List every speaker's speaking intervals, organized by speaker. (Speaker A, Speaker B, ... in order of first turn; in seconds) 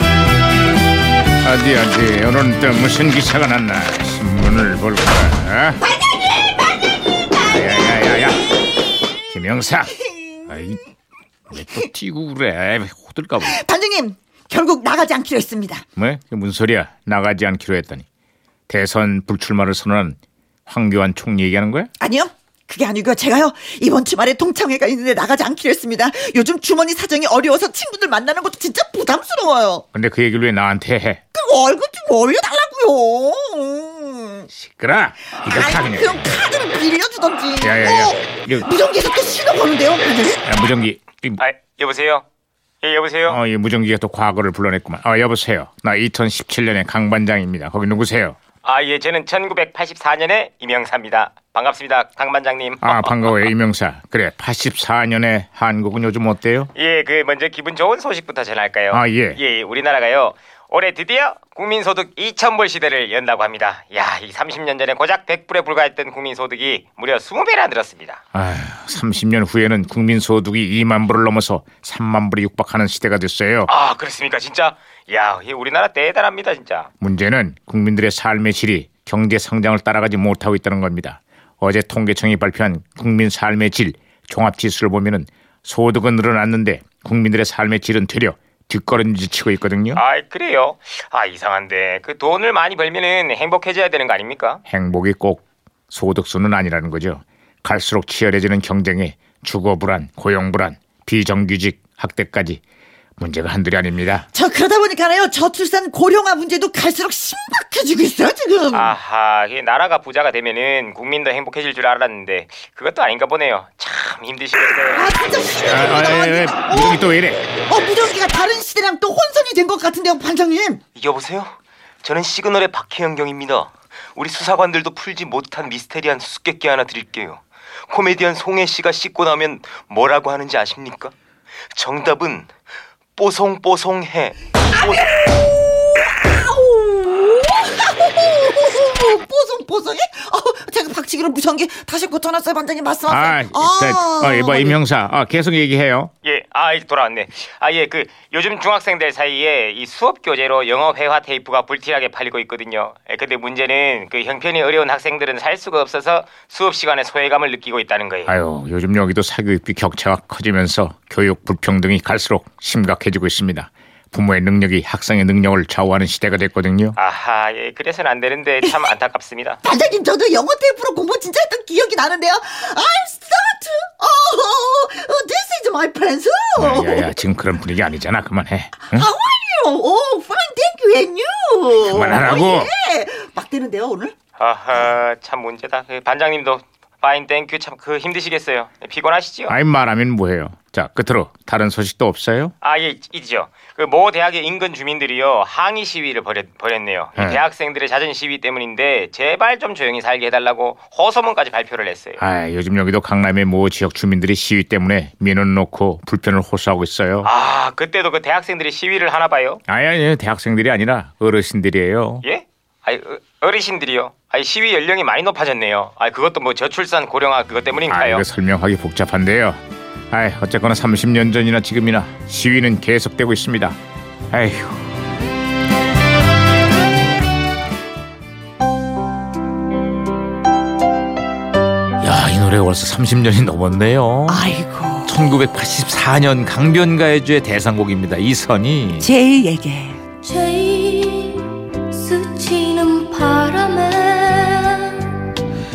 Speaker A: 1.4-5.8, 7.4-8.4, 9.2-9.9, 10.5-10.8, 11.5-13.6, 16.0-18.0, 18.7-21.9, 29.9-31.2, 34.5-36.2, 37.6-38.7, 40.4-41.4, 43.3-48.4, 52.8-56.7, 58.9-59.4, 68.3-73.7, 77.0-90.0, 94.7-102.6, 103.2-104.3, 115.6-117.5, 143.1-146.1, 158.2-166.9, 176.6-179.1, 181.8-182.7, 189.5-192.5, 202.2-207.3, 209.7-212.2, 217.9-219.6, 220.1-223.8, 224.3-224.8, 232.0-234.5, 235.0-239.1
Speaker B: 5.9-6.6, 10.1-10.5, 13.4-15.8, 22.0-29.8, 31.3-34.5, 35.4-40.5, 104.3-108.9, 114.9-117.0, 117.7-120.8, 136.1-144.8, 169.6-177.1, 178.8-184.1, 234.3-235.1, 239.0-240.0
Speaker C: 41.4-42.2, 42.8-43.4, 48.6-53.5, 56.7-68.2, 73.7-76.9, 89.9-94.6, 108.7-115.2, 120.9-131.1, 131.7-132.5, 133.2-135.2, 146.2-158.3, 166.9-169.6, 184.4-189.5, 192.6-202.2, 207.2-209.6, 212.2-218.2
Speaker D: 240.2-245.3